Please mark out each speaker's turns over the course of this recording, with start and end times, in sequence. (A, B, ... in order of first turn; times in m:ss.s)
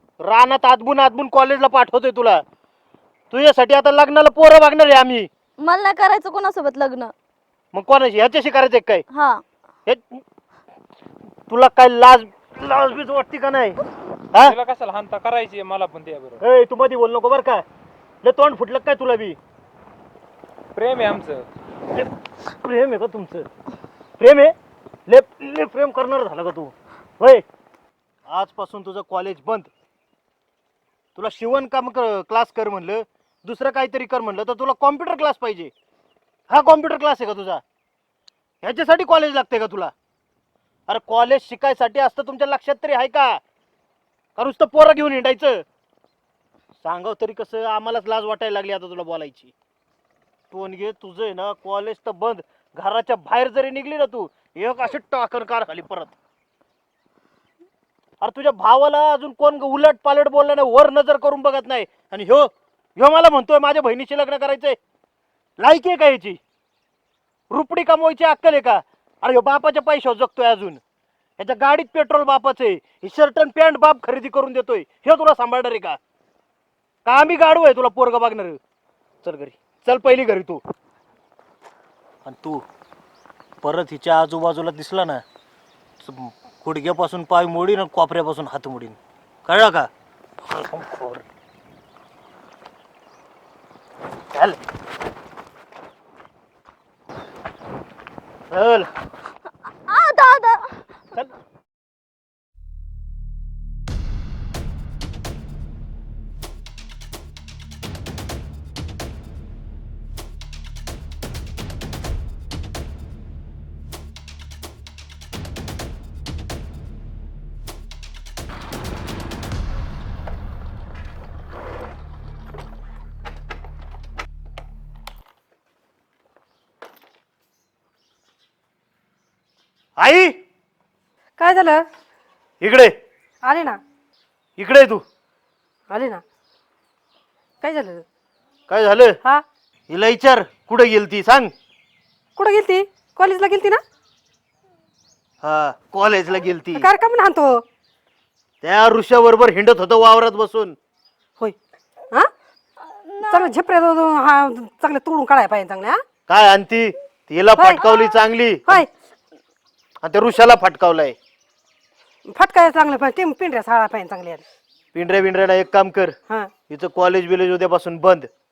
0:00.2-0:02.4 A
0:03.3-0:05.3 A
0:05.6-0:07.1 B
0:07.7-0:09.0 A
0:09.1-0:09.4 B
0:09.8-0:10.2 A
0:11.5-0:13.8 A
0:14.4-0:16.4 C
0:16.4-0:17.6 A
0:18.2-0:19.4 A
0:20.7-0:21.4 C
0:21.9-0:23.4 A
0:24.2-0:24.5 A
0:25.1-0:27.4 A
0:28.3-0:29.7 A
0:31.2-0:35.7 A
0:36.5-0:37.6 A
0:38.6-0:39.9 A
0:40.9-0:43.4 A
0:44.4-0:45.6 A
0:46.8-0:49.5 A
0:50.5-0:56.1 A
0:58.2-1:04.8 A
1:05.6-1:06.4 A
1:07.5-1:10.8 A
1:11.4-1:16.0 A
1:17.0-1:18.6 A
1:19.2-1:20.6 A
1:22.2-1:22.6 A
1:23.6-1:25.2 A
1:26.0-1:29.9 A
1:30.5-1:31.2 A
1:38.5-1:38.9 A
1:39.8-1:40.8 B
2:10.0-2:10.3 A
2:11.4-2:11.8 D
2:12.6-2:12.9 A
2:13.4-2:13.8 D
2:14.6-2:15.0 A
2:15.9-2:16.2 D
2:17.6-2:18.0 D
2:18.7-2:19.2 A
2:19.9-2:21.5 A
2:22.4-2:23.8 D
2:25.4-2:26.8 A
2:26.7-2:27.6 D
2:28.6-2:30.7 A
2:32.8-2:33.5 B
2:33.2-2:36.0 D
2:36.3-2:38.8 A
2:37.6-2:37.8 D
2:37.8-2:38.1 B
2:40.0-2:41.2 A
2:42.3-2:44.4 D
2:44.9-2:46.2 A
2:46.7-2:48.3 A